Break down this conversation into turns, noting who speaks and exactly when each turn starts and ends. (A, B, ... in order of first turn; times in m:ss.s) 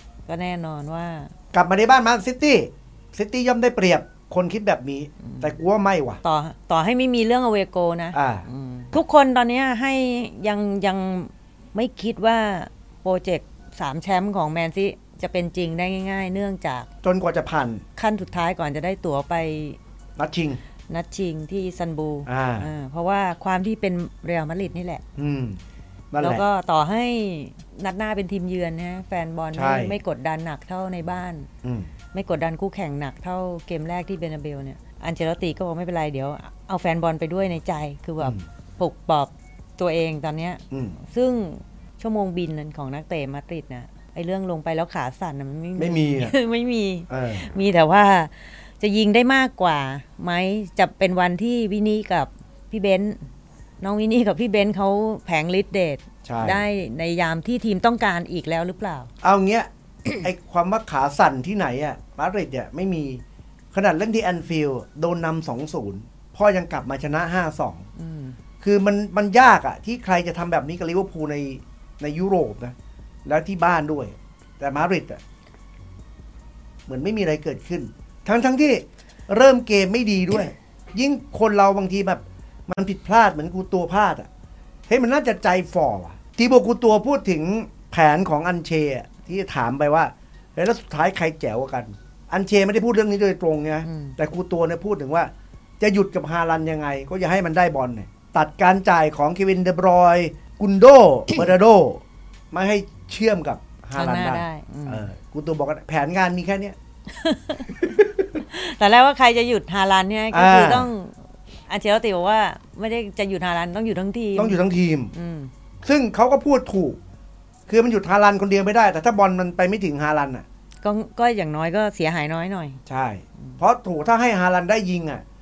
0:00.3-0:01.3 A
0:01.5-0:06.2 B
0:05.2-0:05.5 A
0:06.2-0:16.9 A
0:08.1-0:08.4 B
0:17.0-0:17.8 B
0:18.0-0:19.8 A
0:20.2-0:20.6 B
0:20.9-0:25.0 A
0:22.3-0:22.7 B
0:25.2-0:25.6 B
0:26.1-0:26.4 B
0:26.2-0:31.5 A
0:29.5-0:30.0 B
0:31.6-0:31.9 B
0:32.1-0:53.2 A
0:40.7-0:41.0 B
0:45.8-0:46.3 B
0:47.1-0:47.5 B
0:53.8-0:59.1 A
0:56.2-0:56.6 B
0:59.2-1:03.2 B
1:03.7-1:07.8 B
1:08.0-1:08.4 A
1:08.6-1:12.7 B
1:13.2-1:15.2 B
1:16.9-1:24.3 B
1:24.9-1:46.8 B
1:33.8-1:34.2 A
1:43.9-1:45.1 A
1:47.1-1:51.2 A
1:47.7-1:48.2 B
1:50.3-1:50.9 B
1:51.7-1:54.6 A
1:54.4-1:55.1 B
1:55.1-1:55.5 A
1:55.8-1:57.0 B
1:57.7-2:00.4 B
2:00.8-2:02.8 A
2:02.9-2:05.2 B